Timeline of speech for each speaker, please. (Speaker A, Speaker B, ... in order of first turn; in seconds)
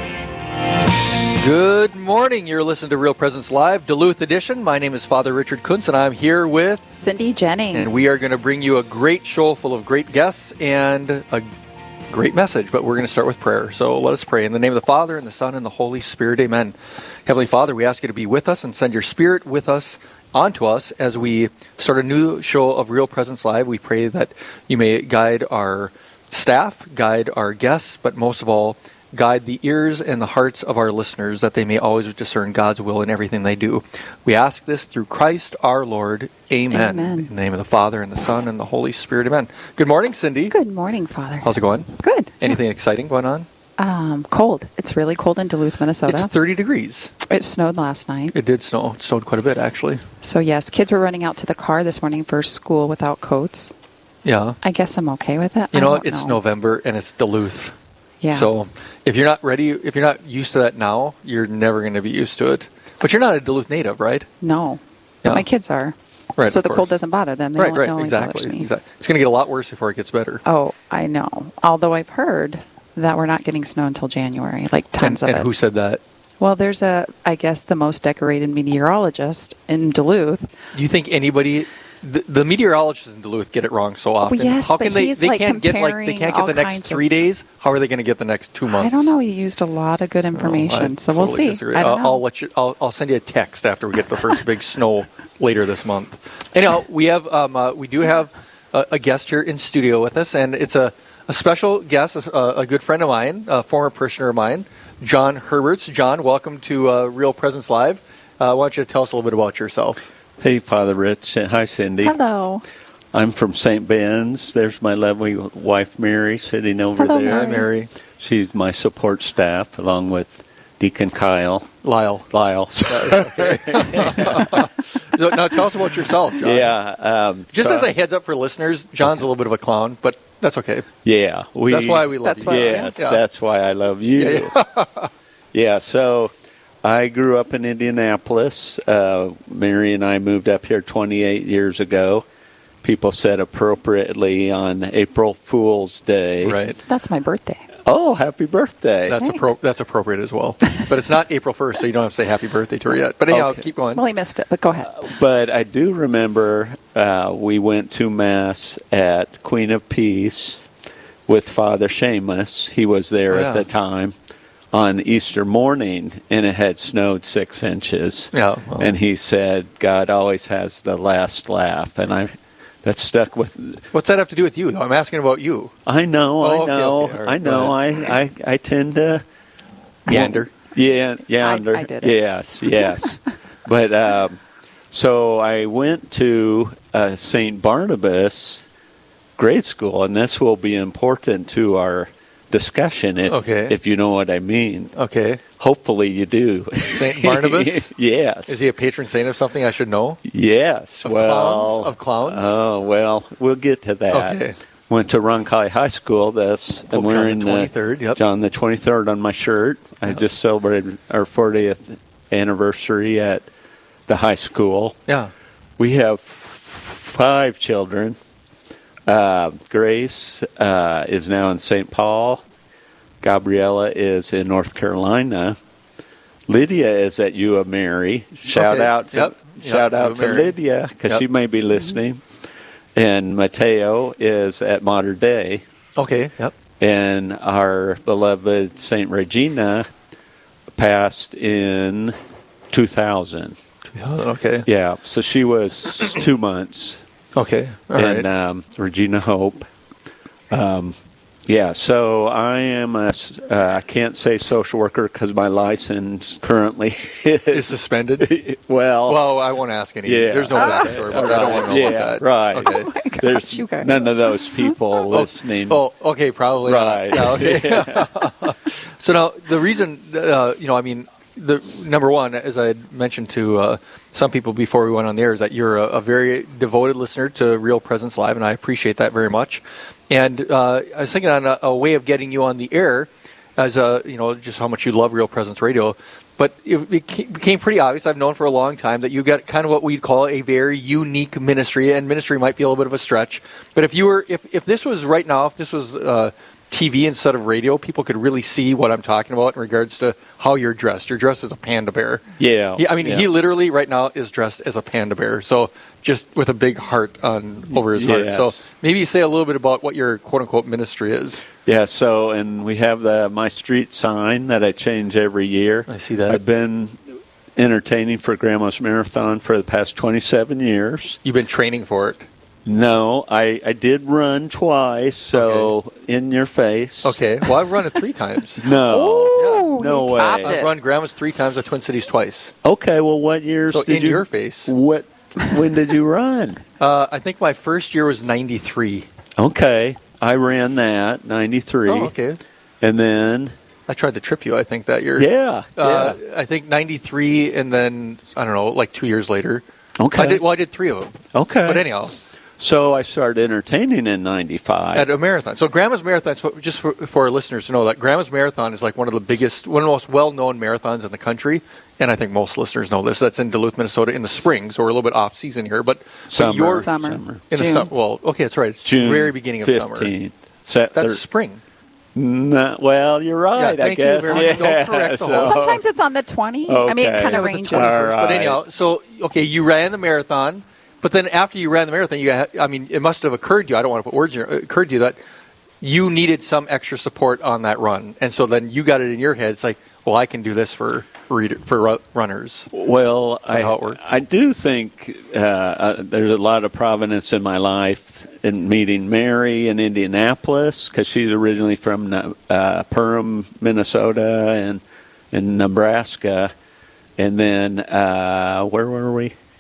Speaker A: 1.4-6.8, 7.7-11.5, 12.1-40.5, 41.4-43.5, 46.1-47.1, 48.3-50.0, 54.2-54.6, 55.7-57.7, 58.3-64.3, 66.4-66.9, 67.6-70.4, 75.0-76.0, 80.7-89.1, 90.3-110.1, 117.2-117.9, 121.8-122.3, 122.8-126.7, 127.5-130.9, 131.7-133.2, 134.2-135.1, 146.4-146.8, 149.1-154.0, 163.3-163.6, 168.3-168.9, 173.9-175.7, 176.4-177.8, 180.1-180.5, 193.3-193.8, 194.9-195.4, 196.9-197.9, 198.5-200.2, 201.0-202.5, 204.1-204.6, 206.9-208.2, 228.5-230.6, 236.0-236.5, 243.9-244.7, 247.3-248.3, 257.5-258.3, 259.1-262.9, 265.1-302.2, 302.8-311.4, 315.9-316.4, 321.2-322.3, 325.3-325.7, 327.0-328.6, 329.4-329.7, 330.4-332.5, 333.7-334.7, 336.8-339.1, 341.9-342.4, 343.9-349.6, 350.1-352.2, 354.9-366.9, 367.5-370.1, 370.9-371.6, 373.6-375.6, 377.3-385.2, 385.8-392.7, 393.5-394.0
Speaker B: 6.9-8.0, 36.7-37.3, 40.5-42.6, 43.8-46.3, 47.3-48.4, 50.2-53.7, 54.6-56.4, 58.2-58.5, 64.4-68.7, 70.5-75.5, 76.4-80.6, 84.3-87.0, 88.7-92.2, 112.0-112.6, 117.0-117.7, 132.2-133.0, 146.9-147.7, 153.9-155.0, 181.4-182.2, 182.8-183.1, 262.6-264.8, 328.7-330.8, 366.7-367.9, 374.3-374.6, 375.4-378.1
Speaker C: 110.4-112.2, 113.1-117.7, 118.2-121.8, 122.3-124.7, 126.4-127.9, 131.0-134.6, 135.5-142.3, 142.8-146.6, 147.8-149.2, 153.3-153.6, 154.8-160.7, 161.3-164.2, 164.7-172.3, 172.8-173.8, 175.9-179.2, 180.1-184.4, 184.9-188.7, 189.4-194.9, 195.6-198.6, 200.2-213.5, 214.1-215.0, 215.8-218.2, 219.1-222.4, 223.2-225.6, 226.5-232.2, 232.9-235.6, 236.8-239.9, 240.8-242.2, 242.7-243.6, 244.7-247.0, 247.9-249.7, 250.5-259.3, 260.1-265.8, 266.6-268.1, 302.4-303.3, 307.7-308.7, 311.7-317.0, 317.6-321.2, 322.6-327.2, 328.6-330.6, 332.6-336.6, 339.4-342.1, 342.8-343.6, 345.2-346.2, 350.0-350.4, 351.3-351.9, 352.6-355.1, 366.3-367.4, 368.8-371.2, 372.1-375.8, 376.7-378.6, 392.7-406.5, 407.2-409.4